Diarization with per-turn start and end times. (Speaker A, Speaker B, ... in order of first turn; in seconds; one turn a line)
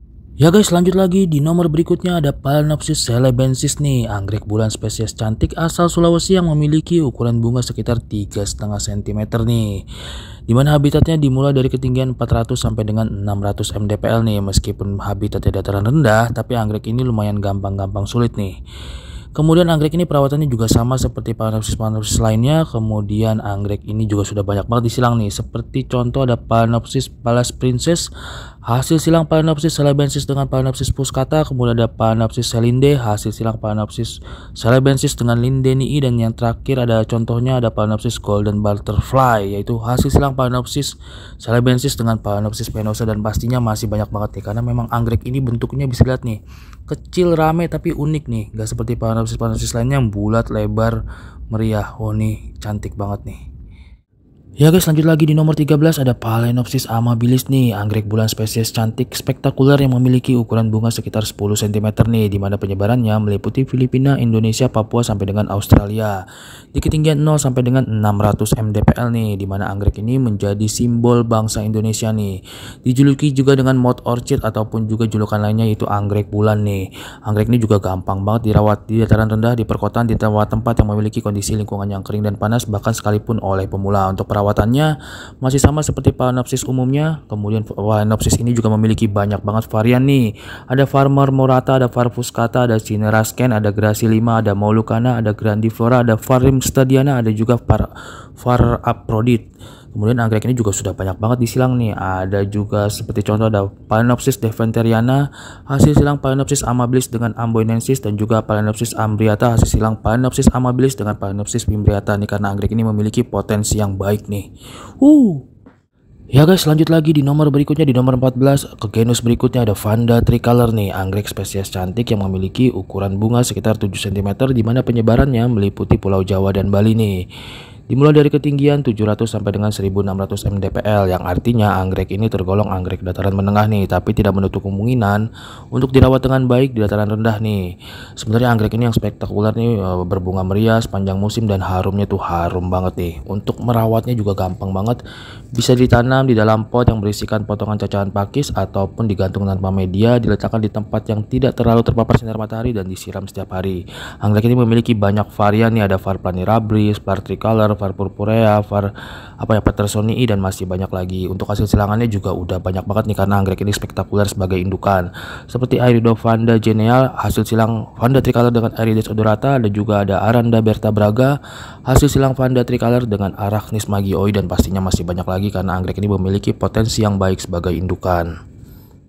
Speaker A: 0.4-9.8
Speaker A: 10.5-18.6
Speaker A: 19.4-28.1
Speaker A: 28.7-51.0
Speaker A: 51.5-53.4
Speaker A: 54.6-66.2
Speaker A: 66.7-84.9
Speaker A: 85.4-97.9
Speaker A: 98.4-114.5
Speaker A: 115.0-115.4
Speaker A: 116.3-127.2
Speaker A: 127.9-145.0
Speaker A: 145.5-158.9
Speaker A: 159.4-178.3